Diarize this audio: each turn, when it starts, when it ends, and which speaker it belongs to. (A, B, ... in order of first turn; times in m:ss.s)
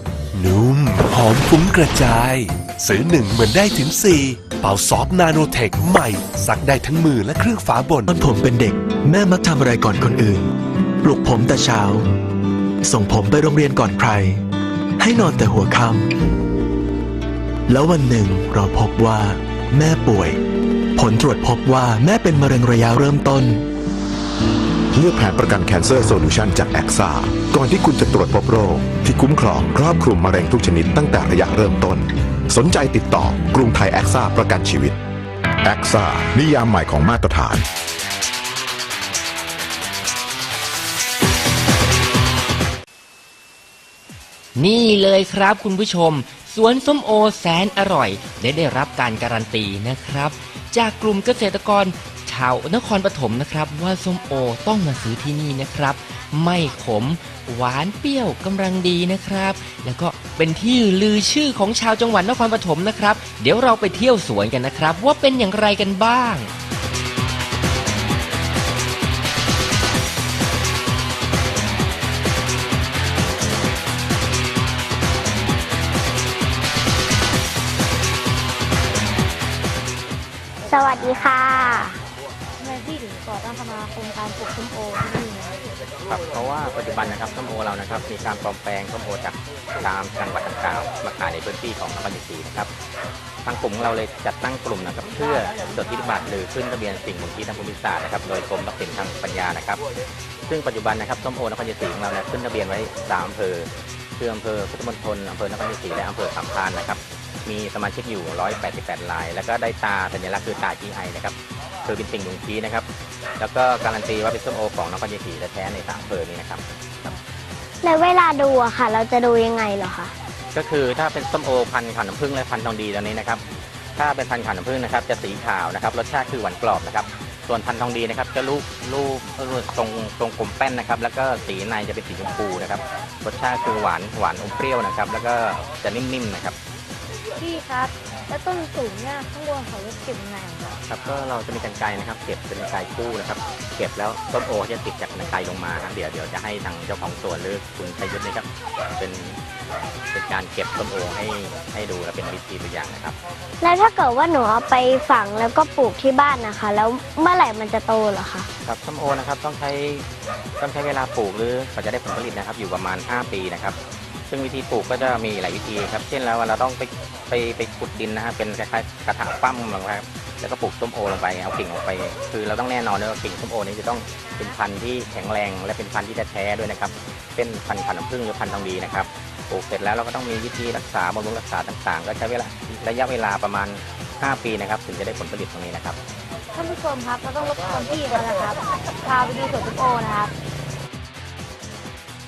0:00.3-0:08.1 A
0:08.1-0:10.5 B
0:11.0-0:12.0 B
0:12.8-0:14.4 B
0:15.0-0:16.1 B
0:17.7-0:20.4 B
0:21.0-0:23.6 B
0:24.9-0:35.0 C
0:35.6-0:37.6 C
0:44.6-1:06.5 D
1:20.7-1:22.0 E
1:22.6-1:25.6 F
1:26.1-1:32.7 G
1:33.4-1:39.8 G
1:40.5-1:52.9 G
1:53.4-1:57.1 G
1:57.8-2:00.1 E
2:00.5-2:03.4 G
2:04.0-2:16.6 G
2:17.4-2:20.8 F
2:20.9-2:28.5 G
2:29.0-2:29.4 G
2:30.1-2:33.2 G
2:33.6-2:38.5 E
2:38.6-2:40.1 G
2:40.6-2:43.8 G
2:44.3-3:06.0 G
3:06.5-3:10.3 F